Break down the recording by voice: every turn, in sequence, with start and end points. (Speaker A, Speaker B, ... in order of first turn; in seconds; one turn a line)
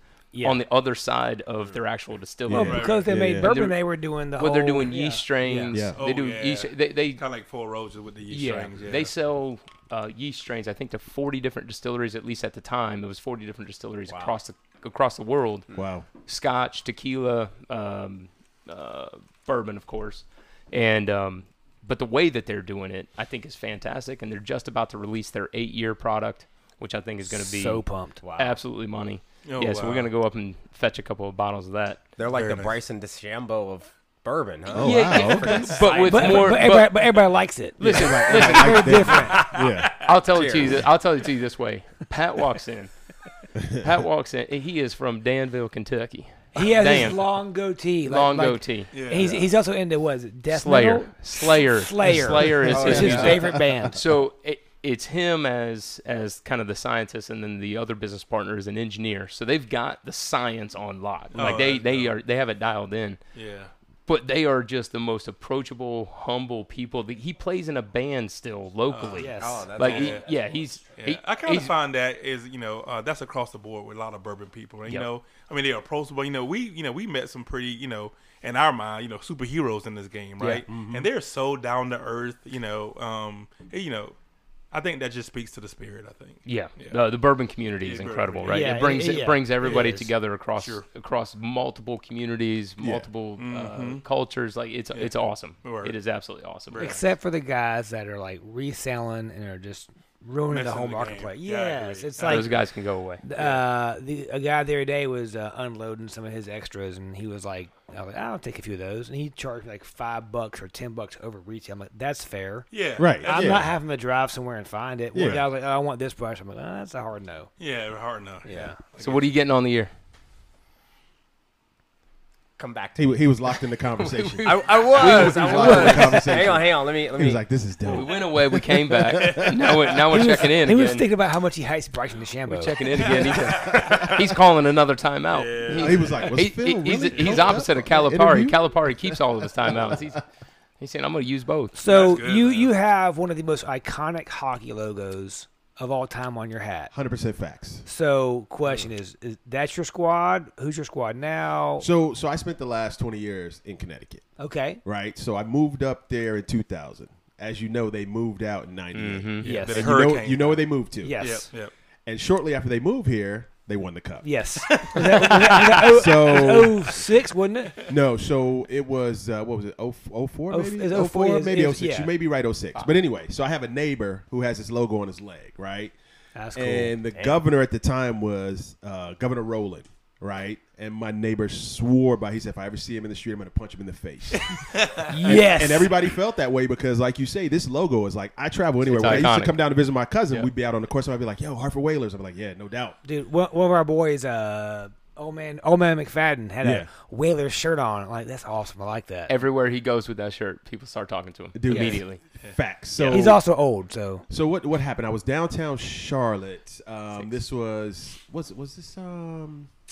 Speaker A: 0.3-0.6
Speaker B: 0.4-3.8
Speaker C: 2.5-3.5
Speaker A: 2.5-5.8
Speaker D: 2.6-3.1
Speaker B: 4.4-7.2
Speaker C: 5.7-6.0
Speaker D: 5.9-9.1
Speaker B: 8.3-15.7
Speaker E: 14.1-14.3
Speaker C: 15.7-16.1
Speaker B: 16.2-32.0
Speaker A: 27.2-28.2
Speaker E: 28.2-28.6
Speaker D: 29.4-30.1
Speaker E: 32.2-36.6
Speaker D: 32.2-32.7
Speaker C: 34.7-35.8
Speaker B: 34.8-37.0
Speaker A: 35.9-39.5
Speaker C: 37.8-39.9
Speaker B: 37.8-38.9
Speaker D: 39.3-39.9
Speaker B: 40.0-42.9
Speaker E: 40.3-40.9
Speaker C: 43.6-43.9
Speaker B: 43.8-47.2
Speaker A: 46.5-54.0
Speaker D: 46.6-47.1
Speaker B: 48.0-49.4
Speaker D: 48.9-49.3
Speaker B: 50.5-63.2
Speaker C: 52.6-53.6
Speaker D: 53.0-53.3
Speaker D: 61.3-62.1
Speaker D: 63.3-63.7
Speaker B: 64.0-71.7
Speaker D: 68.9-70.2
Speaker A: 69.2-69.7
Speaker E: 69.4-70.4
Speaker D: 71.0-84.2
Speaker B: 80.4-80.6
Speaker C: 80.7-81.1
Speaker D: 84.7-87.0
Speaker B: 86.4-96.9
Speaker D: 87.8-88.9
Speaker A: 88.5-89.8
Speaker D: 89.6-90.8
Speaker C: 92.8-93.1
Speaker D: 93.4-94.0
Speaker D: 94.9-96.0
Speaker D: 96.7-97.1
Speaker A: 96.8-102.6
Speaker D: 100.5-102.5
Speaker B: 102.2-103.2
Speaker A: 103.2-117.5
Speaker D: 103.3-103.6
Speaker D: 112.7-113.7
Speaker C: 113.0-113.7
Speaker C: 115.1-115.4
Speaker D: 117.6-119.3
Speaker A: 118.4-118.8
Speaker E: 118.5-118.7
Speaker B: 119.0-119.9
Speaker E: 122.6-123.2
Speaker C: 123.0-129.7
Speaker B: 124.0-126.2
Speaker E: 124.4-127.4
Speaker B: 127.8-131.1
Speaker D: 129.1-129.9
Speaker A: 130.1-132.8
Speaker B: 132.4-140.2
Speaker D: 133.1-134.1
Speaker C: 133.7-134.0
Speaker D: 135.3-136.4
Speaker C: 135.8-140.2
Speaker D: 137.1-137.6
Speaker B: 140.8-141.8
Speaker A: 141.7-146.9
Speaker D: 141.8-142.7
Speaker C: 146.9-147.8
Speaker A: 147.8-151.9
Speaker C: 151.8-154.3
Speaker A: 154.4-154.8
Speaker C: 154.8-161.4
Speaker B: 158.9-159.5
Speaker A: 159.4-160.1
Speaker D: 159.4-161.7
Speaker A: 161.0-161.5
Speaker C: 162.1-164.8
Speaker A: 164.2-167.8
Speaker D: 164.7-165.7
Speaker C: 165.8-167.0
Speaker C: 167.8-175.9
Speaker A: 170.5-172.1
Speaker A: 176.3-177.0
Speaker C: 176.5-184.6
Speaker D: 184.5-185.0
Speaker A: 185.1-185.9
Speaker C: 185.2-193.0
Speaker B: 188.9-189.6
Speaker A: 193.0-199.3
Speaker C: 196.6-196.9
Speaker B: 199.3-202.2
Speaker C: 201.5-203.4
Speaker A: 201.7-202.0
Speaker A: 203.1-204.2
Speaker C: 204.3-209.7